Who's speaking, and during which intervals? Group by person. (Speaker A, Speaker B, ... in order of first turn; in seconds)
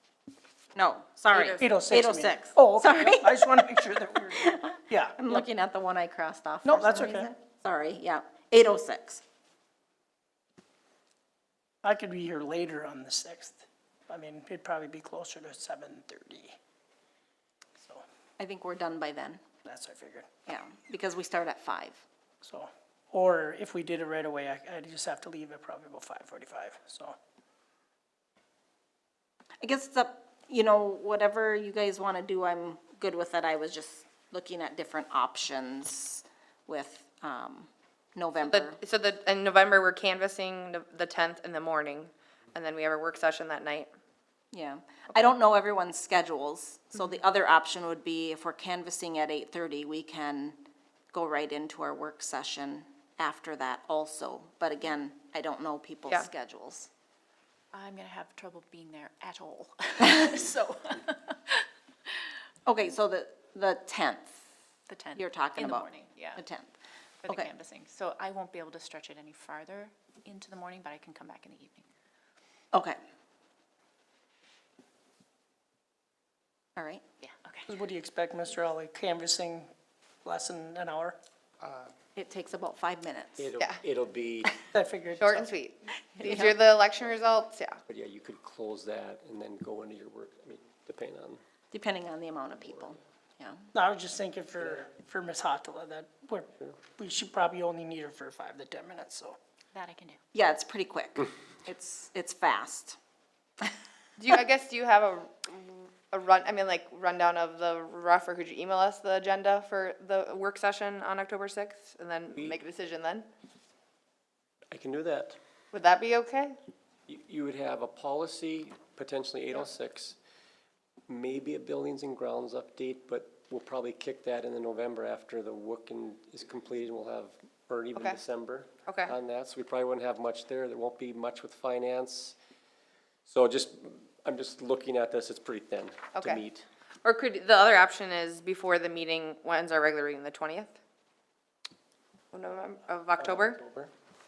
Speaker A: 0.7-9.2, 18.4-19.4, 20.5-22.0, 29.6-38.8, 44.5-50.6, 51.1-56.9, 62.7-64.4, 65.2-66.7, 72.7-73.0, 76.8-77.0, 82.2-83.5, 86.2-86.5, 91.7-93.7, 100.3-103.0
Speaker B: 1.6-5.5, 6.7-7.3, 11.8-16.6, 19.6-20.3, 22.4-27.2, 77.7-79.7, 80.2-81.2, 84.7-85.5, 93.7-99.4
Speaker C: 38.4-43.9, 85.2-87.8, 104.2-113.3, 115.7-116.6, 128.9-129.1, 136.1-136.4, 137.0-140.8, 142.3-143.6
Speaker D: 57.7-61.6, 64.9-66.4, 67.2-71.9, 77.2-77.7, 99.7-100.2
Speaker E: 83.4-84.5, 87.9-91.4, 114.7-115.4, 117.1-120.2, 121.1-132.4, 133.3-136.7, 143.2-143.9